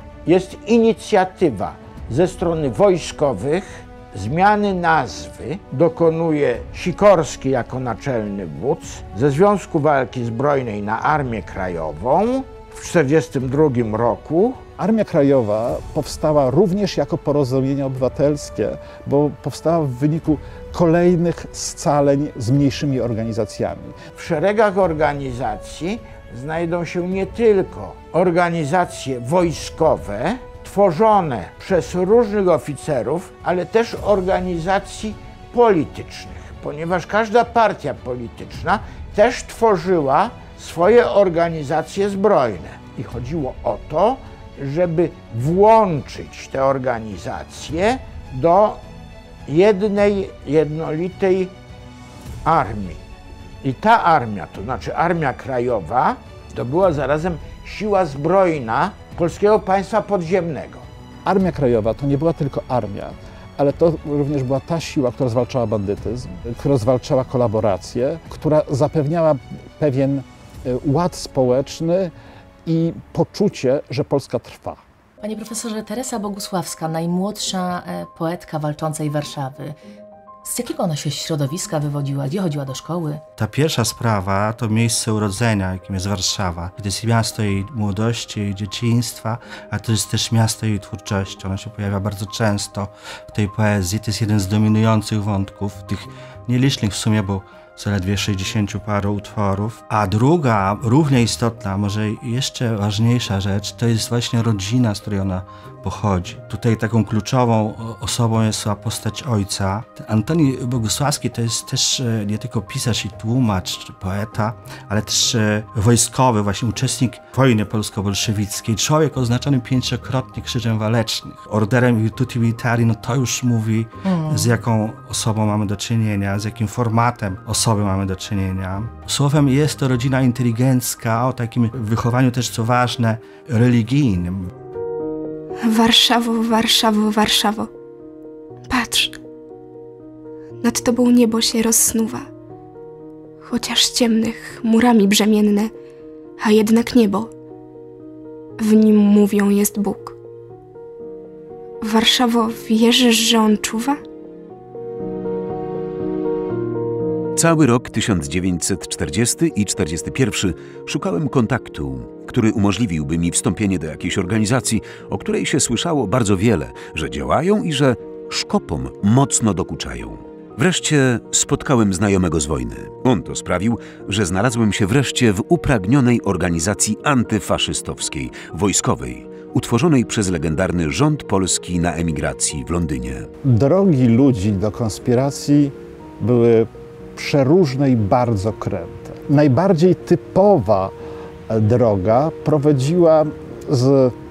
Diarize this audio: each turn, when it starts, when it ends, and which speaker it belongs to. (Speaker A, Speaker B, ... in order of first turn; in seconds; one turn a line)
Speaker A: 0.3-14.7
Speaker B: 14.8-24.0
Speaker A: 24.2-48.8
Speaker A: 49.5-51.5
Speaker A: 52.5-53.0
Speaker A: 53.6-60.9
Speaker B: 61.2-72.1
Speaker B: 72.7-74.8
Speaker C: 75.2-79.8
Speaker C: 80.4-83.2
Speaker D: 83.4-134.5
Speaker C: 124.0-124.5
Speaker E: 135.6-137.7
Speaker E: 138.7-139.2
Speaker E: 140.6-142.3
Speaker E: 143.4-145.7
Speaker E: 146.4-147.3
Speaker E: 148.6-150.2
Speaker E: 151.8-154.0
Speaker F: 157.4-183.3
Speaker B: 183.4-190.9
Speaker B: 191.5-194.2